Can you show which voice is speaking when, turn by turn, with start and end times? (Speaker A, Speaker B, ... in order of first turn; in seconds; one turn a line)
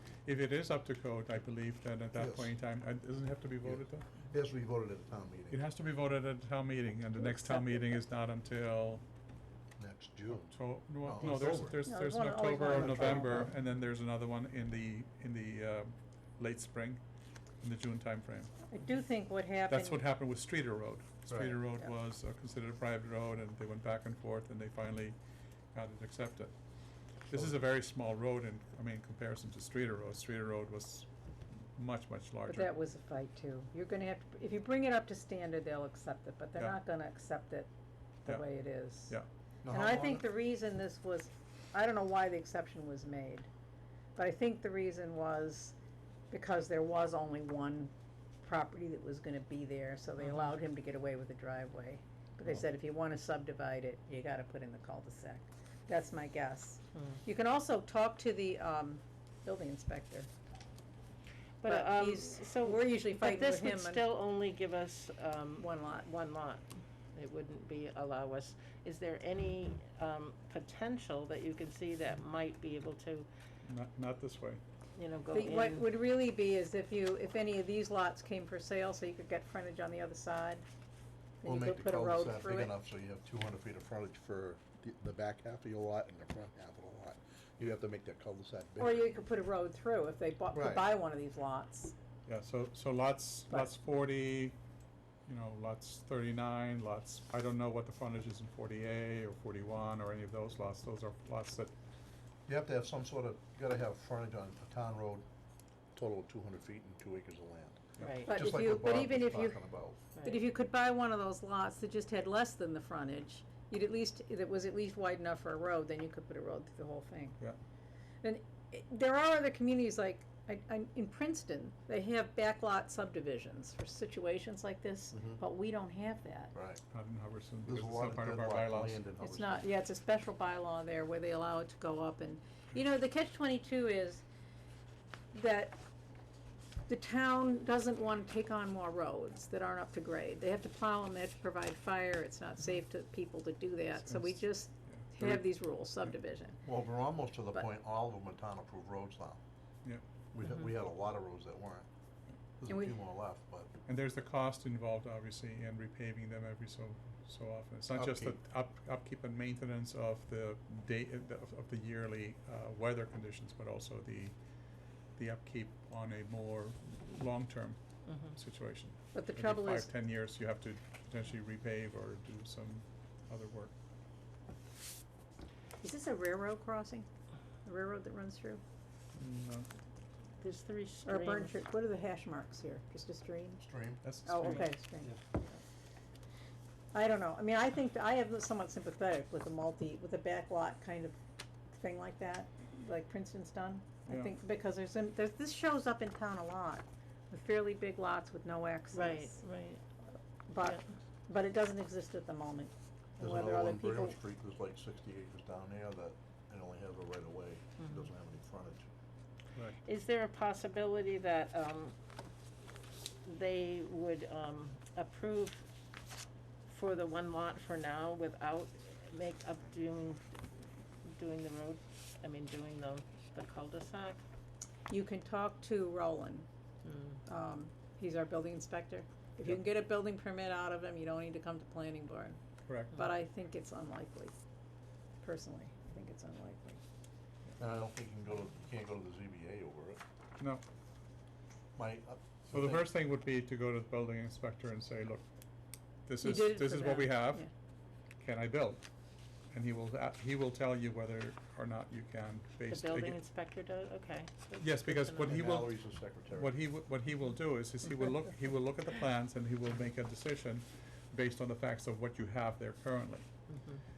Speaker A: 0.2-4.1
Speaker B: 2.1-2.5
Speaker B: 3.6-5.6
Speaker A: 5.5-9.0
Speaker C: 7.3-7.7
Speaker B: 9.8-11.8
Speaker A: 10.5-17.0
Speaker C: 11.8-13.5
Speaker B: 12.7-13.3
Speaker A: 17.6-18.5
Speaker C: 18.7-20.0
Speaker A: 19.7-25.1
Speaker B: 21.3-21.6
Speaker A: 25.7-26.5
Speaker A: 27.3-31.1
Speaker A: 31.7-32.7
Speaker C: 32.5-37.7
Speaker C: 38.2-39.1
Speaker A: 38.2-39.3
Speaker B: 39.6-40.2
Speaker C: 39.7-43.5
Speaker C: 44.1-45.7
Speaker C: 46.3-47.9
Speaker C: 48.4-60.3
Speaker D: 50.2-50.5
Speaker D: 61.6-66.6
Speaker C: 61.6-64.0
Speaker C: 65.6-66.1
Speaker D: 67.1-73.3
Speaker A: 73.6-74.6
Speaker D: 75.0-75.9
Speaker C: 75.3-80.6
Speaker C: 81.4-82.7
Speaker B: 81.4-89.1
Speaker C: 88.8-91.9
Speaker B: 90.5-90.9
Speaker A: 92.3-94.6
Speaker A: 95.3-101.7
Speaker B: 102.5-105.2
Speaker B: 105.9-110.0
Speaker D: 108.0-108.4
Speaker C: 108.3-109.6
Speaker C: 110.2-117.4
Speaker C: 118.2-126.5
Speaker B: 125.1-125.4
Speaker B: 126.5-126.8
Speaker A: 126.9-129.0
Speaker B: 127.7-129.6
Speaker C: 129.2-134.2
Speaker C: 135.3-135.8
Speaker C: 136.9-146.6
Speaker A: 144.0-145.5
Speaker B: 146.6-149.4
Speaker B: 150.3-151.9
Speaker B: 152.6-153.7
Speaker A: 153.8-164.3
Speaker B: 157.9-158.4
Speaker A: 165.2-167.8
Speaker D: 168.1-168.3
Speaker A: 168.3-173.7
Speaker C: 169.1-169.9
Speaker C: 175.8-177.1
Speaker C: 177.6-178.6
Speaker A: 179.1-179.7
Speaker D: 180.4-181.5
Speaker C: 181.0-183.6
Speaker B: 183.6-184.0
Speaker A: 184.0-184.7
Speaker C: 184.2-185.4
Speaker C: 186.9-191.2
Speaker C: 191.7-199.4
Speaker A: 194.0-194.3
Speaker D: 198.9-199.8
Speaker C: 200.5-204.2
Speaker D: 200.6-200.8
Speaker B: 203.2-208.8
Speaker D: 207.8-208.1
Speaker D: 209.8-211.9
Speaker D: 213.2-215.6
Speaker D: 216.7-220.3
Speaker D: 221.1-224.2
Speaker C: 224.9-226.5
Speaker D: 226.8-227.2
Speaker C: 227.2-232.4
Speaker A: 232.7-233.0
Speaker C: 232.9-234.3
Speaker C: 235.2-236.8
Speaker B: 237.6-240.0
Speaker B: 241.8-242.9
Speaker A: 242.5-245.2
Speaker A: 246.1-247.5
Speaker C: 246.2-247.5
Speaker A: 248.2-248.8
Speaker A: 249.5-253.2
Speaker D: 252.7-255.5
Speaker A: 254.6-255.7
Speaker B: 255.2-256.5
Speaker A: 256.3-263.2
Speaker D: 263.5-263.8